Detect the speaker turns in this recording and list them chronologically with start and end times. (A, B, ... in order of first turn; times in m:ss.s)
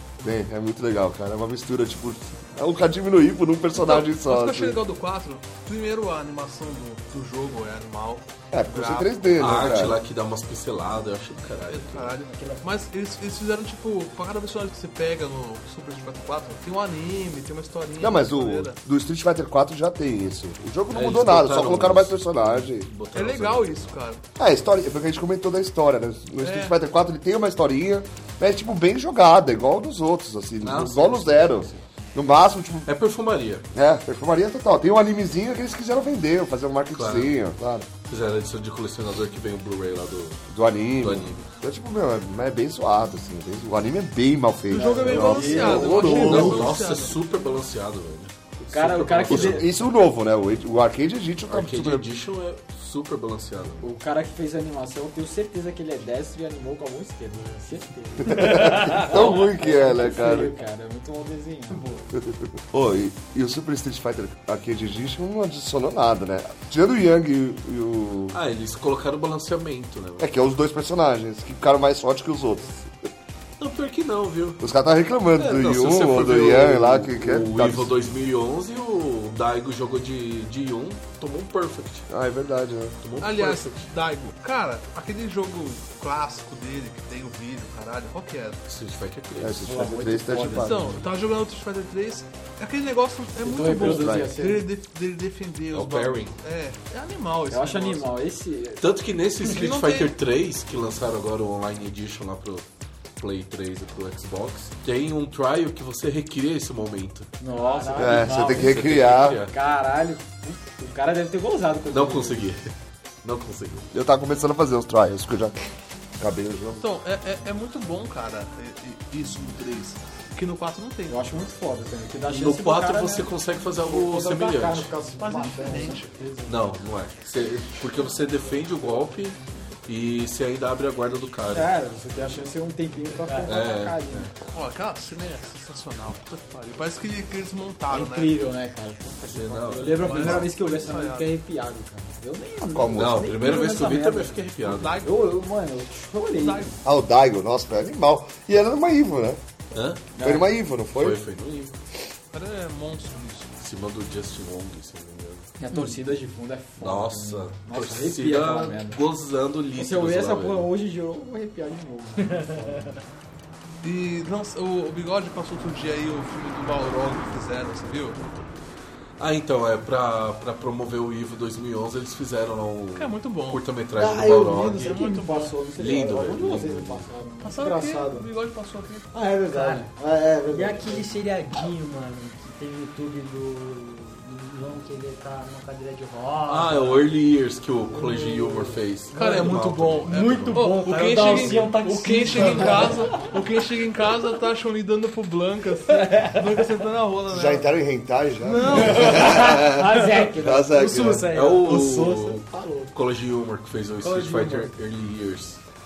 0:00.2-0:04.8 A
0:03.8-0:09.6 B
0:08.5-0:10.0 A
0:09.4-0:12.2 C
0:11.7-0:18.8 B
0:12.2-0:12.7 D
0:18.0-0:22.9 A
0:20.9-0:24.0 C
0:23.1-0:24.2 B
0:24.4-0:32.9 A
0:26.4-0:26.8 B
0:30.6-0:31.8 C
0:32.9-0:33.6 C
0:33.7-0:37.9 A
0:36.9-0:37.4 C
0:38.1-0:40.4 C
0:40.5-0:46.7 A
0:41.0-0:41.5 C
0:44.7-0:46.6 E
0:44.7-0:47.2 B
0:45.5-0:49.7 C
0:48.6-0:49.7 E
0:49.3-0:52.1 A
0:51.5-0:53.9 C
0:53.8-1:01.9 E
0:58.2-1:00.5 A
0:58.4-0:59.1 D
1:02.2-1:08.4 A
1:08.3-1:10.3 C
1:10.2-1:12.9 A
1:13.6-1:14.6 C
1:14.6-1:17.9 A
1:15.4-1:22.1 C
1:22.1-1:23.0 A
1:23.0-1:23.8 C
1:23.2-1:28.6 B
1:28.7-1:29.9 C
1:29.4-1:31.0 A
1:29.6-1:31.0 E
1:30.5-1:38.1 B
1:33.4-1:34.7 E
1:33.6-1:34.3 A
1:35.7-1:36.4 C
1:37.5-1:38.8 E
1:38.8-1:42.6 C
1:39.4-1:40.2 B
1:43.2-1:47.3 C
1:47.4-1:48.8 E
1:47.4-1:48.3 D
1:47.9-1:49.4 A
1:48.2-1:49.5 C
1:49.5-1:52.5 E
1:51.9-1:53.9 C
1:53.9-1:55.5 A
1:56.2-1:56.8 A
1:56.8-2:01.3 B
2:01.1-2:06.5 E
2:02.3-2:04.9 C
2:05.2-2:06.1 B
2:05.2-2:06.0 D
2:06.4-2:11.7 C
2:11.5-2:14.3 E
2:13.2-2:13.6 D
2:13.5-2:14.3 C
2:14.5-2:18.4 B
2:17.9-2:24.5 E
2:19.2-2:20.5 C
2:19.9-2:21.3 B
2:22.7-2:23.2 A
2:22.9-2:25.0 C
2:24.6-2:25.3 B
2:25.0-2:26.8 E
2:26.3-2:26.7 B
2:26.8-2:29.4 A
2:29.7-2:30.1 C
2:30.1-2:30.5 E
2:30.2-2:31.2 A
2:30.9-2:31.8 C
2:32.3-2:33.5 B
2:33.6-2:35.5 C
2:35.6-2:39.0 E
2:35.7-2:35.9 D
2:36.8-2:40.7 C
2:39.8-2:43.0 E
2:42.4-2:43.0 D
2:43.8-2:48.2 B
2:49.2-2:55.1 C
2:52.9-2:53.6 B
2:54.0-2:58.3 E
2:54.7-2:55.6 B
2:55.8-2:57.1 C
2:57.4-2:59.1 B
2:59.1-3:01.1 E
2:59.5-2:59.8 D
3:00.5-3:07.1 D
3:06.5-3:11.6 C
3:07.9-3:13.3 D
3:09.1-3:17.7 B
3:15.9-3:16.8 D
3:17.3-3:21.3 A
3:18.4-3:19.5 B
3:18.7-3:22.9 D
3:20.7-3:22.4 E
3:21.3-3:25.6 C
3:24.0-3:24.7 D